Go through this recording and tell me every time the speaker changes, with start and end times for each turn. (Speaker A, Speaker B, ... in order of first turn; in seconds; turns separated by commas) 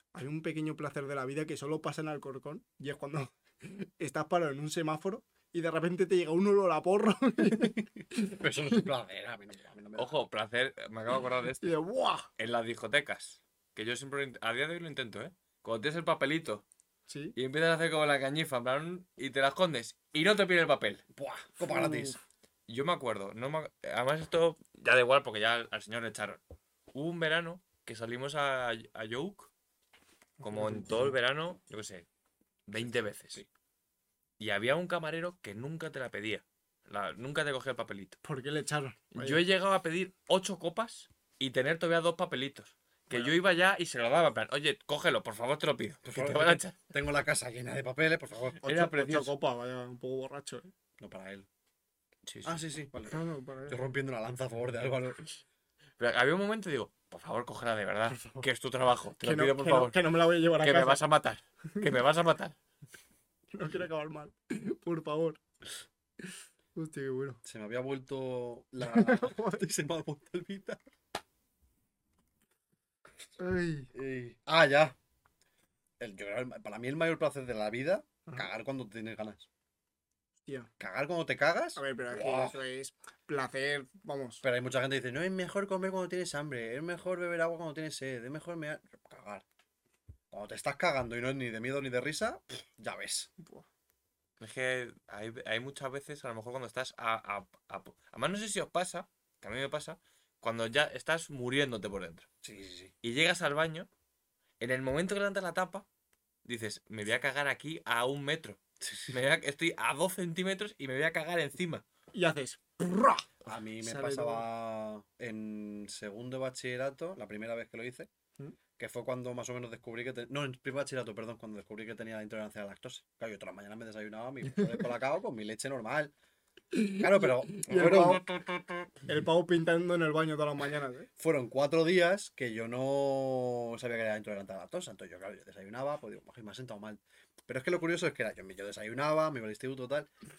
Speaker A: 0.1-8.8, Speaker B: 7.4-10.2, Speaker C: 10.0-11.7, Speaker A: 11.6-12.3, Speaker C: 12.4-16.6, Speaker A: 17.1-17.3, Speaker C: 17.4-21.0, Speaker B: 21.1-22.2, Speaker A: 21.7-22.2, Speaker C: 22.7-26.4, Speaker C: 26.9-29.5, Speaker A: 30.4-31.1, Speaker C: 30.4-32.0, Speaker C: 32.7-33.4, Speaker C: 34.4-38.2, Speaker A: 38.2-39.4, Speaker C: 39.1-46.8, Speaker B: 46.0-48.6, Speaker C: 48.6-49.3, Speaker A: 48.6-50.7, Speaker B: 51.0-51.5, Speaker C: 52.3-52.6, Speaker B: 52.4-55.2, Speaker A: 53.0-53.8, Speaker C: 56.0-60.0, Speaker A: 58.1-58.4, Speaker A: 59.2-61.0, Speaker C: 60.6-62.5, Speaker A: 63.5-65.4, Speaker A: 66.8-67.4, Speaker B: 67.4-70.8, Speaker A: 68.8-69.6, Speaker A: 73.4-73.9, Speaker B: 73.9-75.0, Speaker B: 76.0-79.5, Speaker B: 80.8-82.6, Speaker A: 81.8-84.4, Speaker B: 84.4-89.4, Speaker B: 90.3-93.3, Speaker A: 93.4-93.6, Speaker C: 94.4-102.2, Speaker B: 102.4-102.9, Speaker C: 103.0-103.9, Speaker C: 104.6-105.8, Speaker C: 106.4-111.8, Speaker B: 108.8-109.2, Speaker A: 112.1-114.4, Speaker B: 113.4-118.1, Speaker B: 118.8-126.1, Speaker A: 126.7-128.2, Speaker B: 127.0-128.9, Speaker A: 129.1-131.1, Speaker B: 131.2-140.1